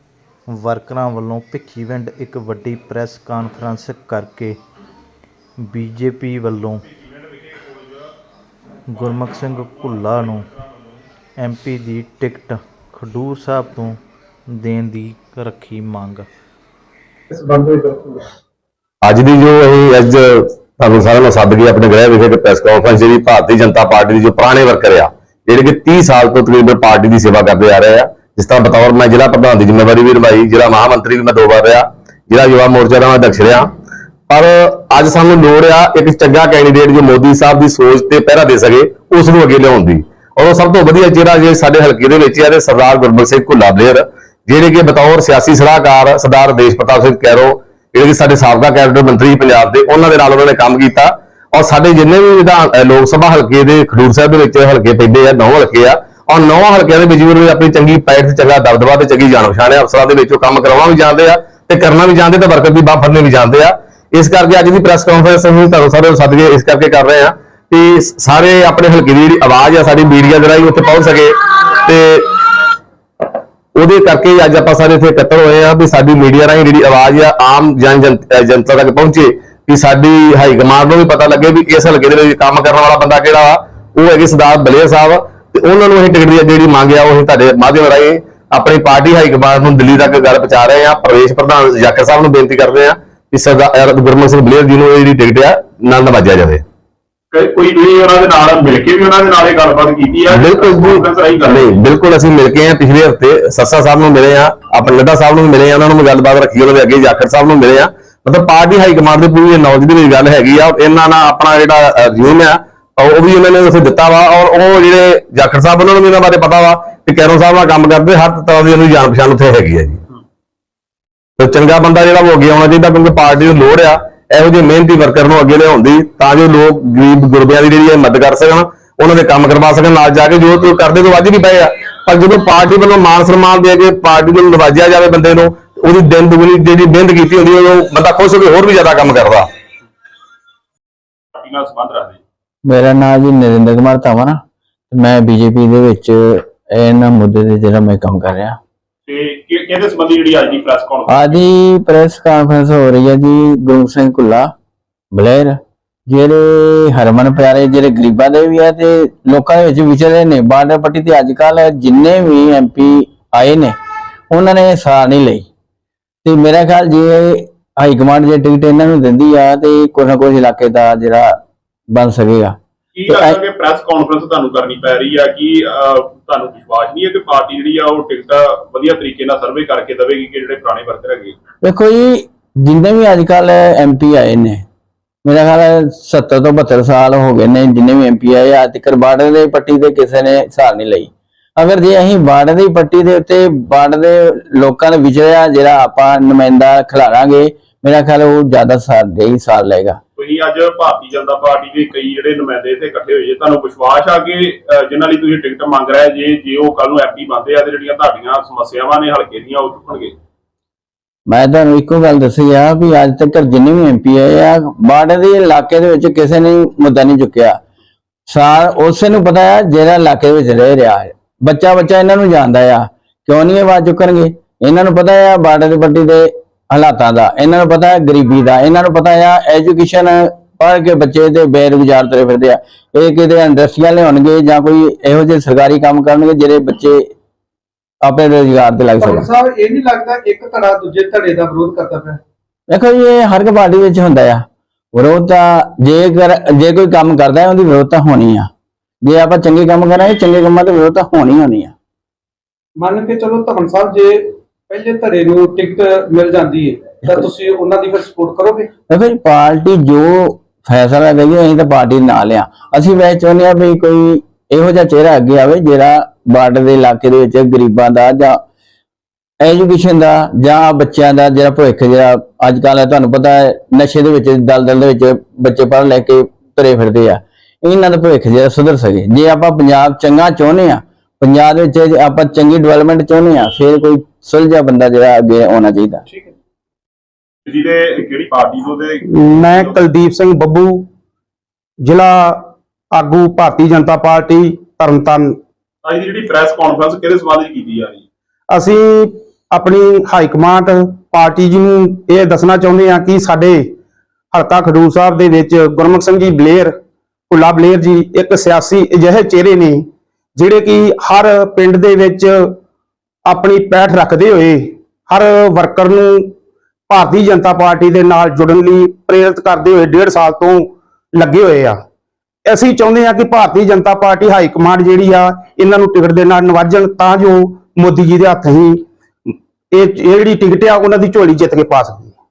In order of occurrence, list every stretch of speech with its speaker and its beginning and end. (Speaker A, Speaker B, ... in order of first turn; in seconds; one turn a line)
Speaker A: 0.5-4.6
Speaker A: 5.6-6.8
Speaker A: 8.9-10.5
Speaker A: 11.4-16.3
Speaker B: 19.0-33.7
Speaker B: 34.3-72.6
Speaker B: 73.8-96.6
Speaker C: 97.3-101.8
Speaker B: 100.3-120.0
Speaker B: 121.4-139.4
Speaker C: 141.3-142.2
Speaker D: 142.7-144.4
Speaker D: 144.9-148.6
Speaker C: 149.1-151.4
Speaker D: 151.1-154.5
Speaker D: 155.1-155.6
Speaker D: 156.1-163.7
Speaker D: 164.3-165.5
Speaker D: 166.2-171.3
Speaker D: 171.9-173.4
Speaker C: 172.9-181.4
Speaker D: 181.6-184.6
Speaker D: 185.2-200.0
Speaker C: 200.2-210.1
Speaker D: 211.3-217.6
Speaker D: 218.3-237.0
Speaker D: 238.0-239.3
Speaker E: 239.0-242.2
Speaker D: 242.7-244.4
Speaker D: 244.9-248.5
Speaker D: 249.0-251.7
Speaker E: 252.8-258.7
Speaker D: 258.9-268.4
Speaker D: 269.4-286.0
Speaker C: 287.4-289.8
Speaker F: 289.1-290.9
Speaker F: 291.8-295.4
Speaker C: 295.8-298.0
Speaker F: 298.5-303.6
Speaker F: 304.3-306.7
Speaker F: 307.3-312.6
Speaker F: 313.3-316.3
Speaker F: 316.9-321.8
Speaker F: 322.4-332.1